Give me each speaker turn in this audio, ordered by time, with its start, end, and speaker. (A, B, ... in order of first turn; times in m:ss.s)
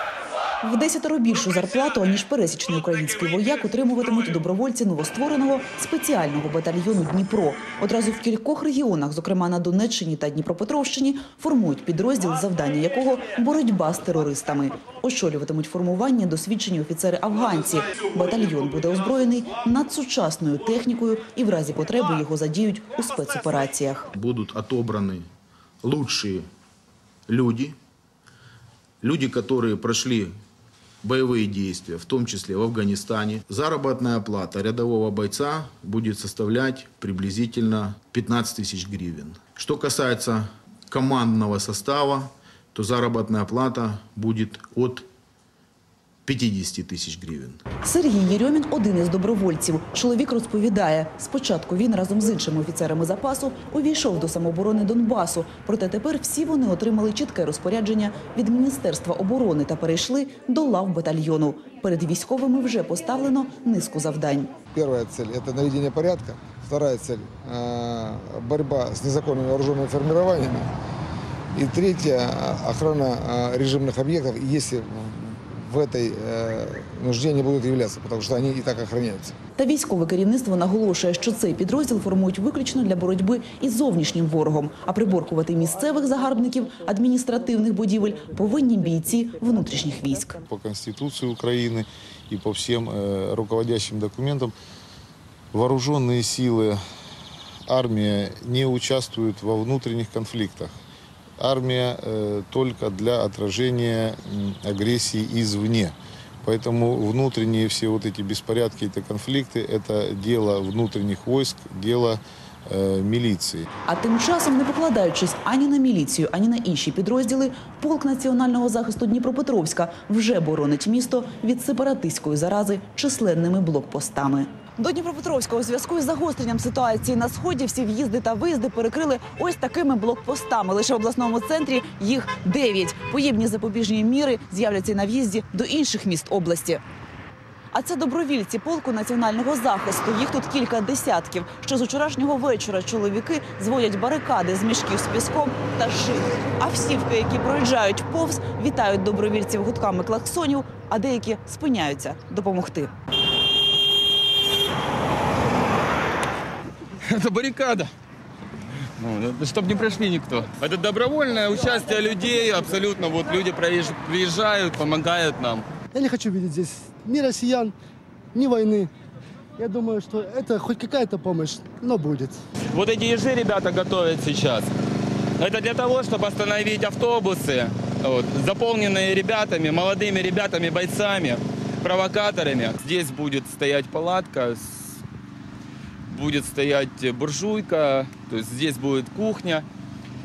0:00.6-0:24.1 A
0:24.2-0:25.2 B
0:25.8-0:26.4 B
0:27.3-0:27.8 B
0:29.0-0:30.3 B
0:31.0-0:45.1 B
0:46.2-0:47.6 B
0:47.8-1:04.6 A
1:04.6-1:10.7 C
1:11.5-1:19.4 C
1:19.6-1:30.4 A
1:30.5-1:34.5 D
1:35.5-1:36.8 D
1:37.7-1:40.7 D
1:41.4-1:53.7 D
1:53.8-2:16.8 A
2:17.7-2:32.9 A
2:37.0-2:37.9 E
2:39.0-2:45.6 E
2:45.9-2:47.7 F
2:48.3-2:48.9 F
2:49.6-2:52.4 F
2:52.7-2:54.7 E
2:55.4-3:05.0 E
3:06.1-3:09.6 E